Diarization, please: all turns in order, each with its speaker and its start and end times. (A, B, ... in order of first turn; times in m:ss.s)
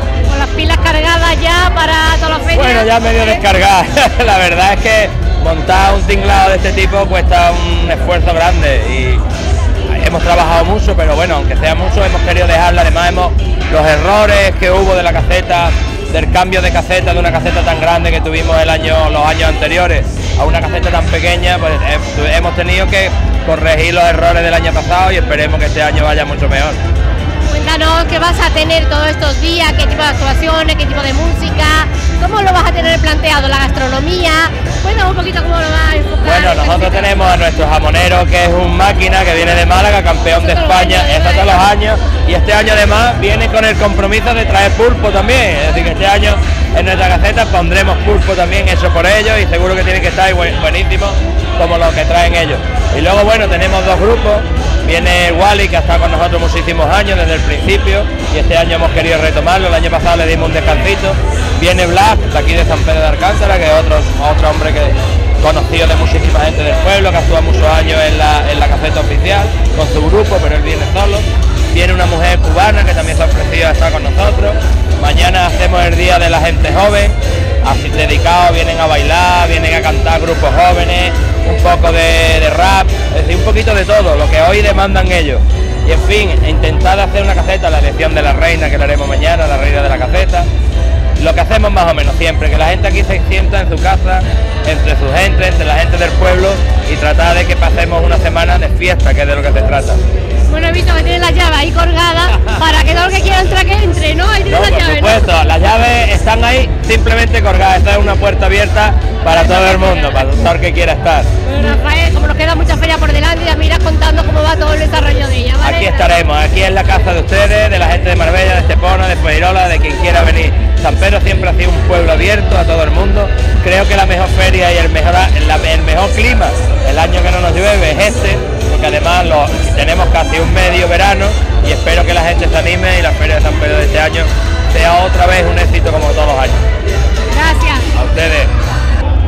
0:00.3-0:03.4 A
0:02.5-0:09.2 B
0:09.9-0:26.8 B
0:27.5-0:37.2 A
0:36.2-1:30.5 B
0:40.3-0:41.7 A
1:31.2-1:40.0 B
1:40.5-1:45.3 A
1:44.5-1:51.3 B
1:49.3-1:50.2 A
1:51.4-1:56.2 A
1:55.6-2:16.6 B
2:17.3-2:17.9 A
2:17.9-2:18.5 B